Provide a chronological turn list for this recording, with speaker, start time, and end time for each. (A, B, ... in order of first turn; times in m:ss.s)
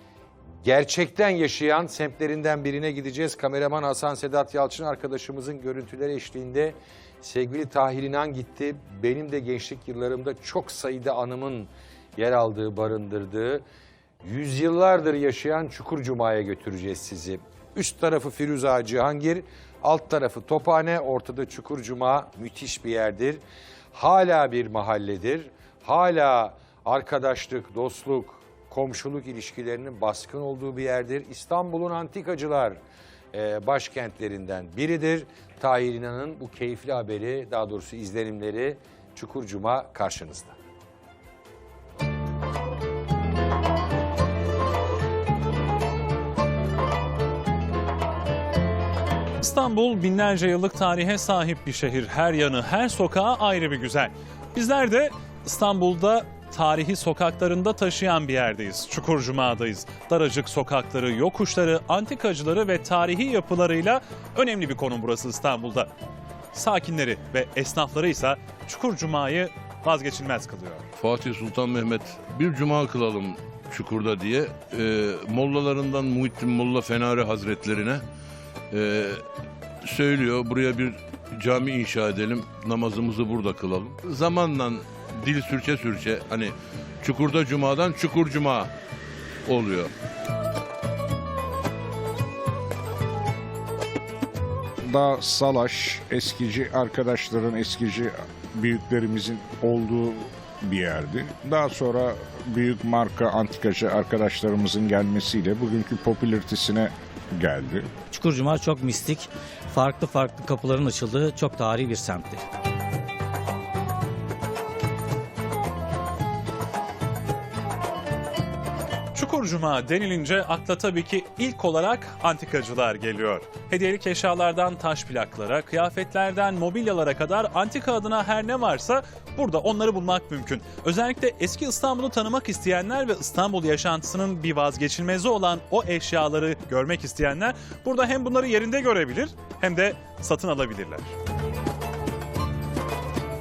0:00.6-0:13.6 A
0:14.2-0:23.4 A
0:23.9-0:32.8 A
0:33.3-0:40.6 A
0:49.4-1:05.9 B
1:06.5-1:10.8 B
1:11.0-1:18.0 C
1:18.7-1:19.2 C
1:19.8-1:28.7 C
1:29.5-1:29.9 C
1:34.8-1:47.9 D
1:48.1-1:52.4 E
1:59.2-2:21.1 B